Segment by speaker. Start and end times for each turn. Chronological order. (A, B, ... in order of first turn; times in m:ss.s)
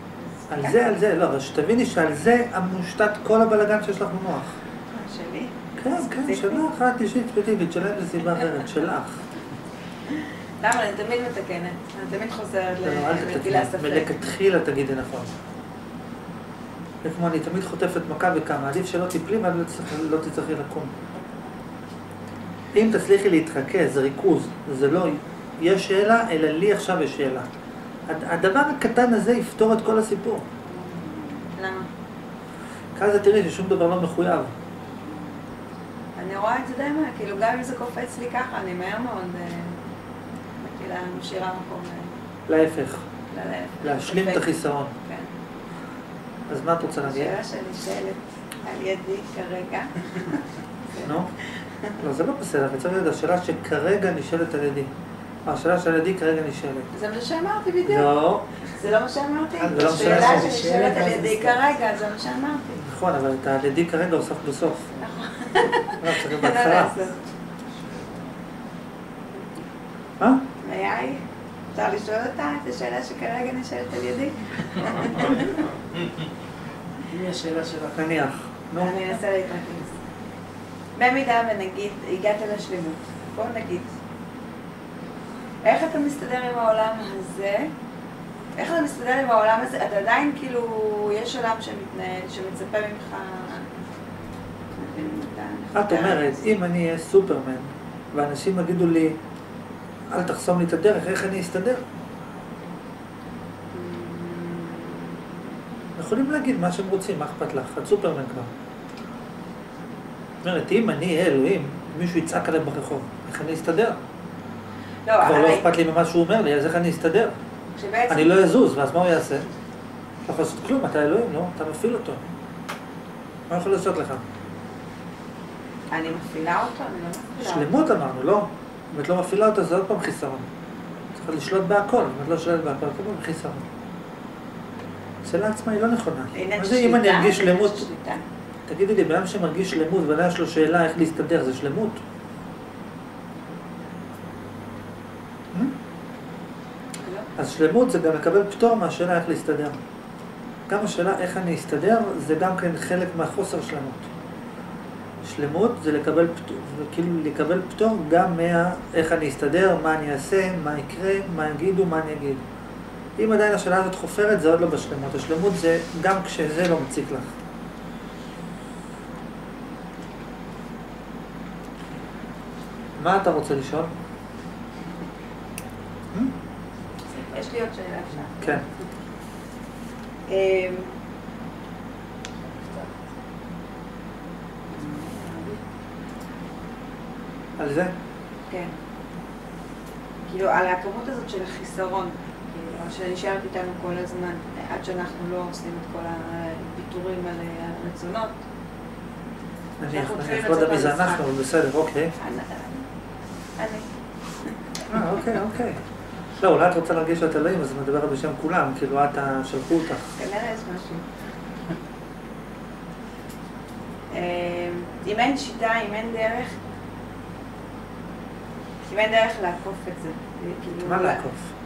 0:00.4-0:00.8 A
0:00.5-0:04.6 B
0:04.9-0:06.6 A
0:05.8-0:09.2 B
0:10.6-0:14.2 A
0:12.8-0:15.3 B
0:17.0-0:20.9 B
0:22.7-0:27.5 B
0:28.1-0:30.4 B
0:30.7-0:31.9 A
0:33.0-0:34.5 B
0:36.2-0:39.8 A
0:40.6-0:42.2 A
0:42.5-0:43.1 B
0:43.3-0:44.5 A
0:43.8-0:44.9 B
0:45.0-0:45.3 A
0:46.5-0:47.4 B
0:46.9-0:52.0 A
0:51.0-0:51.3 B
0:52.0-0:54.9 B
0:55.5-0:56.9 B
0:56.9-1:02.8 A
0:57.8-0:58.5 B
0:59.6-1:01.7 C
0:59.7-1:00.6 B
1:02.8-1:04.9 B
1:05.0-1:07.2 A
1:06.0-1:07.0 B
1:07.7-1:08.3 C
1:10.6-1:11.2 A
1:11.7-1:15.5 A
1:17.1-1:18.1 C
1:18.0-1:19.0 B
1:18.8-1:20.0 A
1:21.0-1:23.9 A
1:25.6-1:27.7 A
1:28.6-1:33.7 A
1:34.7-1:36.4 A
1:35.7-1:39.2 B
1:40.1-1:41.8 B
1:43.7-1:45.2 A
1:46.0-1:48.5 B
1:50.4-1:54.0 B
1:55.0-1:55.7 A
1:55.2-1:57.4 B
1:57.8-1:58.5 A
1:58.1-1:59.5 B
2:00.3-2:02.2 B
2:03.5-2:04.2 B
2:05.9-2:07.8 A
2:07.4-2:10.5 B
2:11.2-2:13.7 B
2:15.2-2:17.9 B
2:16.3-2:18.2 A
2:18.7-2:22.0 B
2:27.0-2:27.3 A
2:27.4-2:29.8 B
2:30.7-2:34.1 B
2:35.2-2:42.4 B
2:43.2-2:47.3 B
2:53.0-2:53.9 B
2:57.1-2:58.6 A
3:00.3-3:00.9 A
3:02.4-3:03.0 C
3:04.7-3:05.6 A
3:07.6-3:08.0 B
3:08.5-3:08.8 A
3:10.3-3:18.4 A
3:19.8-3:22.1 B
3:19.8-3:21.3 A
3:22.2-3:22.9 A
3:23.6-3:23.9 A
3:24.4-3:24.8 A
3:24.9-3:25.8 B
3:26.4-3:30.1 B
3:30.2-3:31.1 A
3:34.1-3:36.6 A
3:38.8-3:41.2 A
3:40.8-3:41.5 B